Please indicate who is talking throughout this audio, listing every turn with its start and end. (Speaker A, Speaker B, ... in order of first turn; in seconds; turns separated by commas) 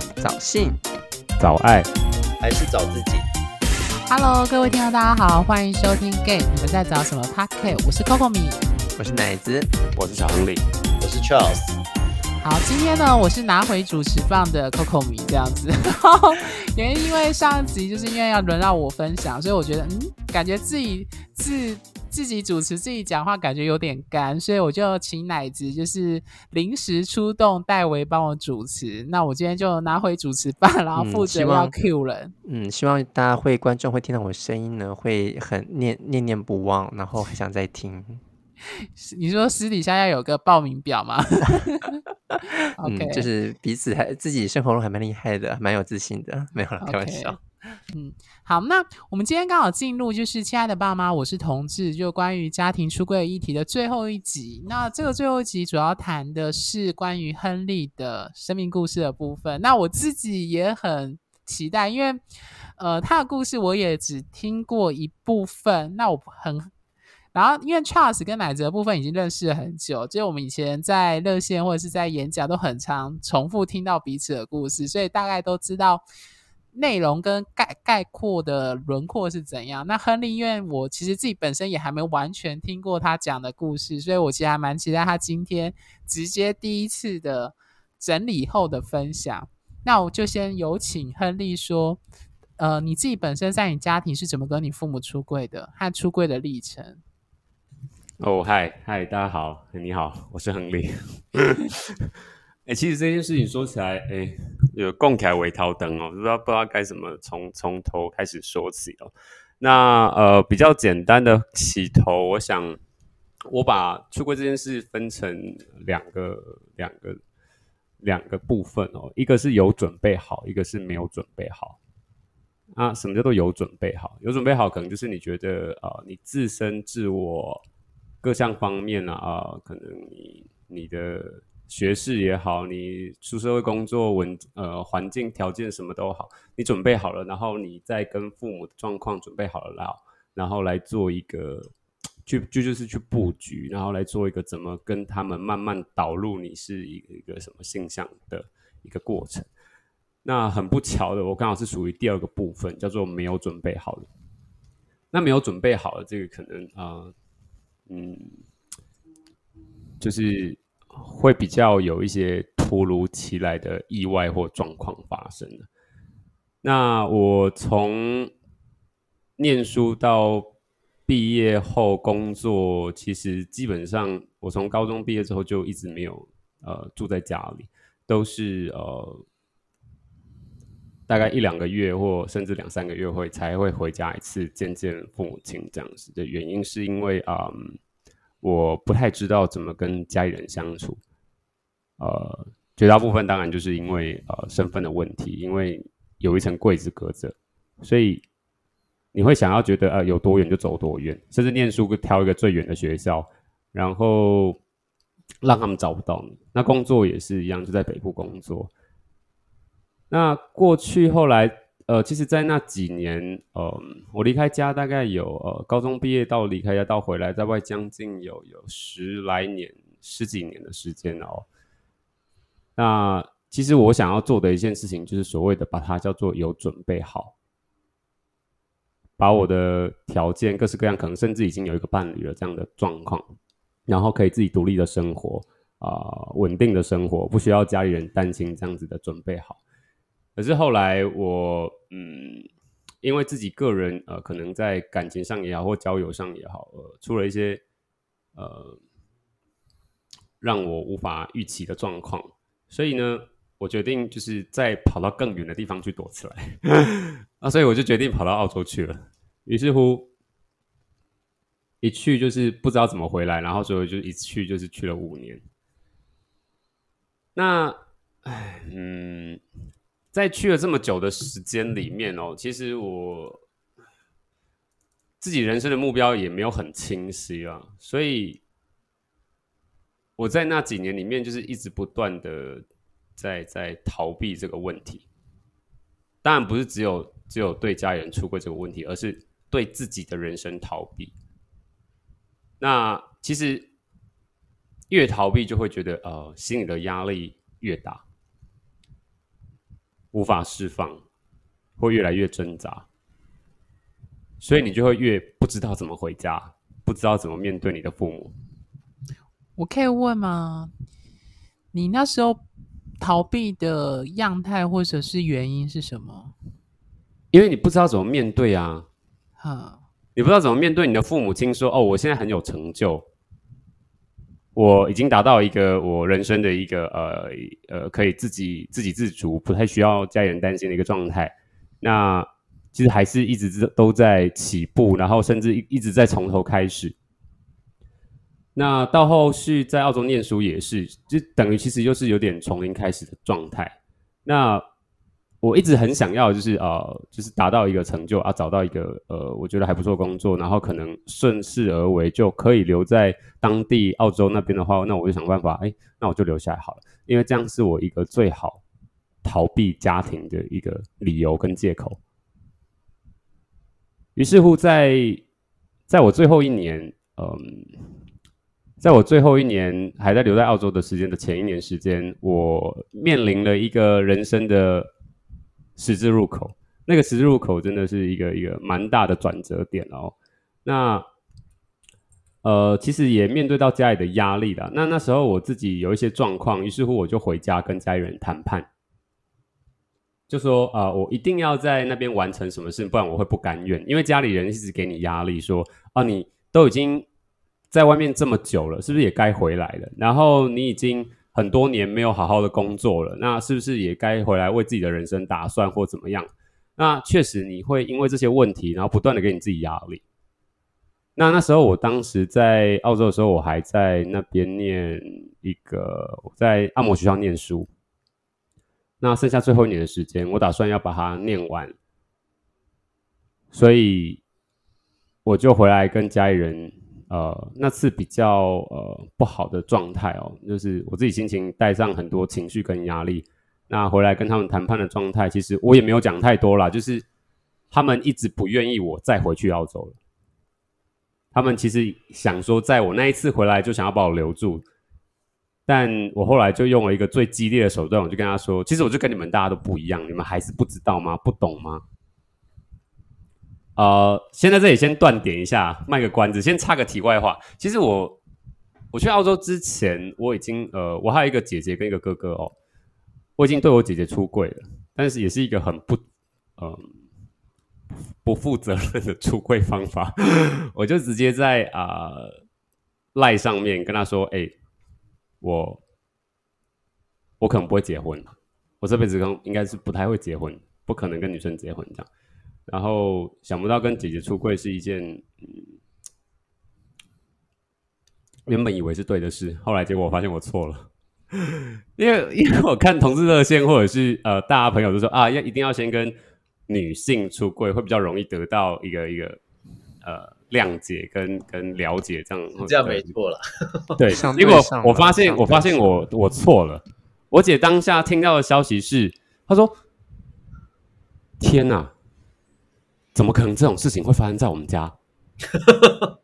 Speaker A: 0.2-0.8, Speaker B: 1.4-1.9, Speaker C: 2.4-3.2, Speaker D: 4.1-8.6, Speaker A: 8.9-9.7, Speaker B: 9.9-10.6, Speaker C: 11.0-11.7, Speaker D: 12.4-32.3, Speaker A: 30.9-31.7, Speaker A: 32.4-38.2, Speaker D: 38.8-42.0, Speaker D: 42.8-43.3, Speaker A: 42.8-47.8, Speaker D: 46.8-47.4, Speaker D: 47.9-62.2, Speaker D: 62.8-66.7, Speaker D: 67.3-76.0, Speaker D: 76.7-92.0, Speaker D: 92.6-97.0, Speaker B: 98.2-102.1, Speaker B: 102.7-112.8, Speaker B: 113.5-117.2, Speaker B: 118.0-121.8, Speaker B: 122.7-127.6, Speaker B: 128.2-141.7, Speaker B: 142.2-149.5, Speaker B: 150.2-154.1, Speaker B: 155.1-157.1, Speaker B: 157.9-158.4, Speaker B: 160.0-165.7, Speaker B: 166.6-168.3, Speaker B: 169.4-170.5, Speaker B: 171.1-179.2, Speaker B: 181.1-187.8, Speaker B: 188.4-191.0, Speaker B: 192.0-198.2, Speaker B: 199.1-204.6, Speaker B: 205.4-208.7, Speaker B: 210.1-221.5, Speaker B: 222.8-227.3, Speaker B: 229.2-233.3, Speaker B: 233.9-239.6, Speaker B: 240.4-242.5, Speaker B: 243.0-247.6, Speaker B: 248.3-248.8, Speaker B: 250.4-260.1, Speaker B: 261.8-265.4, Speaker B: 267.4-269.4, Speaker B: 270.1-273.4, Speaker B: 275.2-278.4, Speaker B: 280.2-282.6, Speaker B: 283.2-285.0, Speaker B: 286.2-291.1, Speaker B: 292.6-293.6, Speaker B: 294.9-298.0, Speaker B: 300.1-301.0, Speaker B: 301.8-302.9, Speaker B: 304.4-308.3, Speaker D: 309.6-310.7, Speaker D: 311.7-312.4, Speaker D: 313.0-316.3, Speaker B: 317.3-318.9, Speaker D: 319.4-319.8, Speaker B: 320.1-323.0, Speaker B: 324.5-336.9, Speaker B: 338.6-343.7, Speaker B: 344.2-344.6, Speaker B: 345.4-358.6, Speaker B: 359.2-362.0, Speaker B: 364.1-365.2, Speaker B: 365.9-367.9, Speaker B: 368.8-374.9, Speaker B: 375.8-380.1, Speaker B: 380.6-381.1, Speaker B: 382.4-388.7, Speaker B: 390.3-397.1, Speaker B: 397.7-410.0, Speaker B: 411.2-417.7, Speaker B: 419.0-421.7, Speaker B: 423.5-424.2, Speaker B: 425.2-437.1, Speaker B: 437.7-440.0, Speaker B: 441.3-444.6, Speaker B: 445.7-451.8, Speaker B: 453.8-458.2, Speaker B: 458.9-462.5, Speaker B: 463.4-466.0, Speaker B: 466.6-466.9, Speaker B: 468.2-472.3, Speaker B: 473.1-474.5, Speaker B: 475.4-475.8, Speaker B: 477.4-482.1, Speaker B: 482.7-485.7, Speaker B: 488.4-496.1, Speaker B: 496.7-499.4, Speaker B: 500.0-503.1, Speaker C: 502.6-504.0, Speaker B: 504.0-509.8, Speaker A: 504.1-505.9, Speaker B: 511.4-511.9, Speaker B: 513.1-514.9, Speaker C: 515.5-516.1